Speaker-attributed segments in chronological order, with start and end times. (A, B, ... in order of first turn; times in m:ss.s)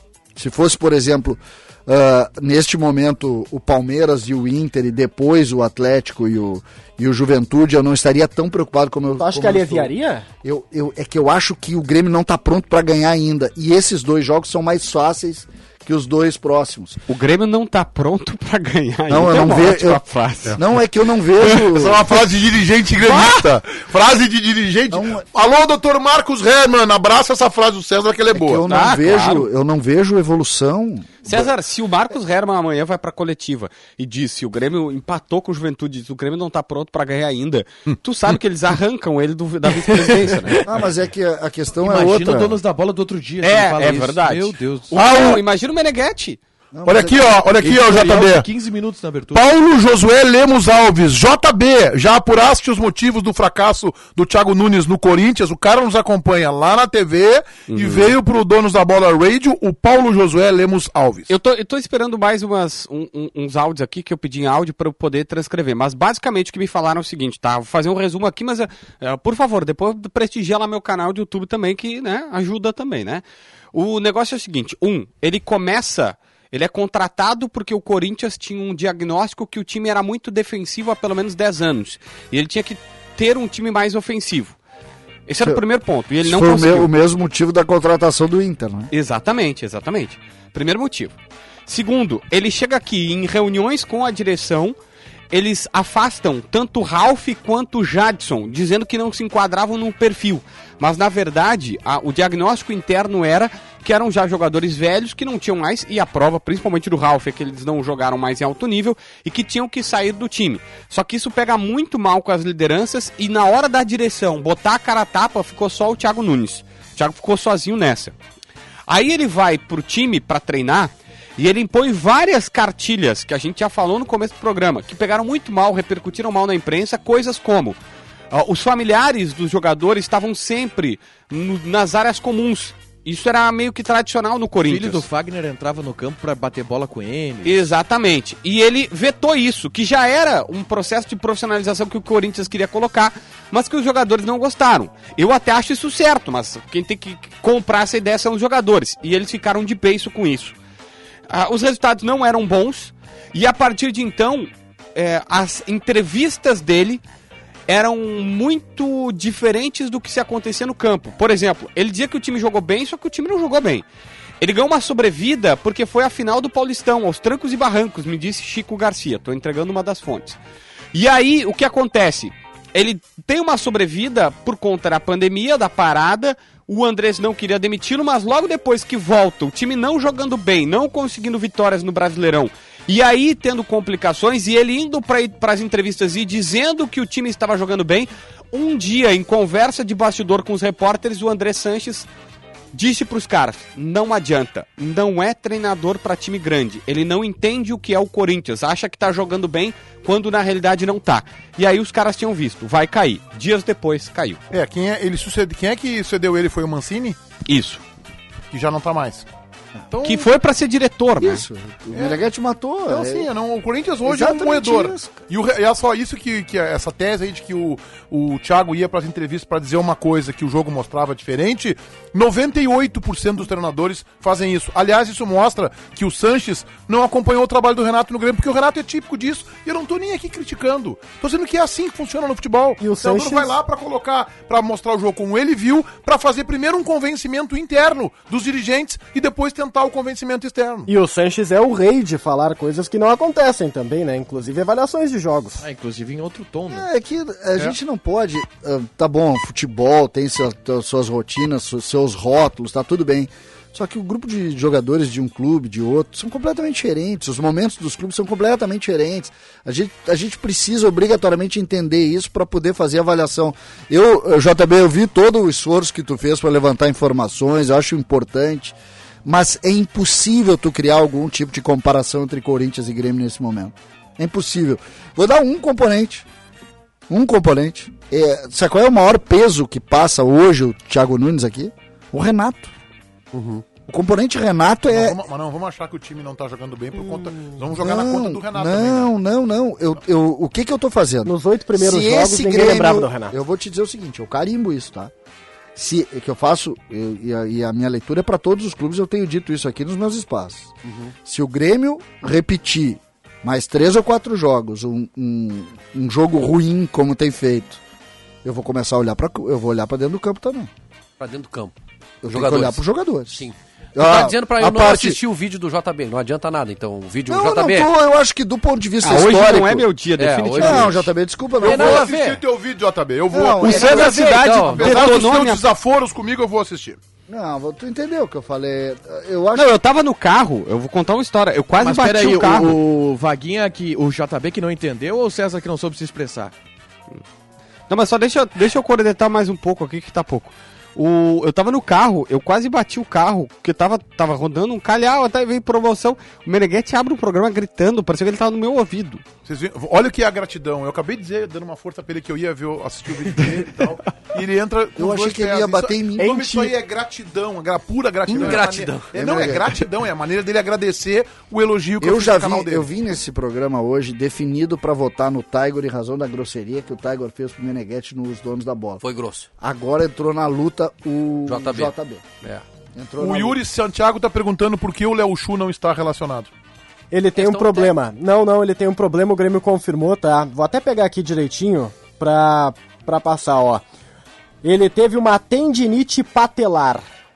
0:00.3-0:09.9 A
0:09.2-0:10.2 B
0:10.4-0:17.0 A
0:17.1-0:20.6 C
0:19.1-0:20.0 A
0:20.5-0:22.1 A
0:21.5-0:28.6 D
0:24.9-0:25.2 A
0:28.3-0:31.5 A
0:28.6-0:29.5 C
0:31.2-0:40.7 C
0:40.6-0:42.6 A
0:41.8-0:45.0 E
0:43.4-0:46.4 C
0:44.9-0:45.4 D
0:46.7-0:47.4 A
0:46.8-0:48.4 D
0:47.6-0:49.4 E
0:49.3-1:01.3 D
0:57.7-0:58.2 C
1:01.3-1:24.6 C
1:25.3-1:26.9 C
1:26.2-1:28.9 A
1:28.9-1:31.1 C
1:31.6-1:34.8 C
1:35.3-1:58.1 C
1:58.9-2:07.8 C
2:08.3-2:15.0 C
2:14.6-2:17.6 E
2:17.4-2:30.6 C
2:31.3-2:37.0 C
2:37.7-2:43.8 C
2:44.4-2:50.4 C
2:50.9-3:12.1 C
3:12.7-3:24.4 C
3:24.5-3:27.2 D
3:27.4-3:27.8 C
3:28.5-3:29.2 D
3:29.9-3:30.3 D
3:30.0-3:31.4 C
3:31.2-3:33.3 A
3:31.9-3:32.2 D
3:32.9-4:00.9 D
3:34.0-3:35.2 A
3:52.8-3:53.6 B
4:00.9-4:05.6 B
4:05.6-4:06.9 E
4:06.7-4:36.2 A
4:37.1-4:42.7 A
4:43.3-4:43.6 F
4:43.9-4:45.2 A
4:44.9-4:49.1 D
4:47.7-4:55.1 A
4:51.2-4:53.3 B
4:55.7-5:07.8 A
5:00.8-5:01.1 F
5:08.4-5:10.7 A
5:11.2-5:11.7 F
5:12.2-5:13.4 A
5:12.3-5:17.9 F
5:13.9-5:15.2 A
5:17.3-5:19.9 A
5:19.0-5:21.1 C
5:20.2-5:21.1 F
5:20.6-5:22.1 A
5:21.6-5:22.4 F
5:21.6-5:27.0 D
5:23.3-5:24.4 A
5:23.6-5:25.6 C
5:23.6-5:25.0 F
5:27.3-5:29.7 A
5:29.5-5:32.8 C
5:31.8-5:36.5 E
5:37.9-5:49.2 C
5:49.4-6:02.9 D
5:55.0-5:56.5 A
5:56.2-5:56.7 B
5:58.3-5:59.1 F
5:59.1-5:59.8 A
6:02.0-6:09.0 A
6:09.0-6:09.5 F
6:09.6-6:12.2 A
6:11.5-6:12.6 F
6:12.9-6:13.6 A
6:13.2-6:16.5 D
6:17.1-6:23.8 B
6:17.4-6:17.9 F
6:24.6-6:27.0 B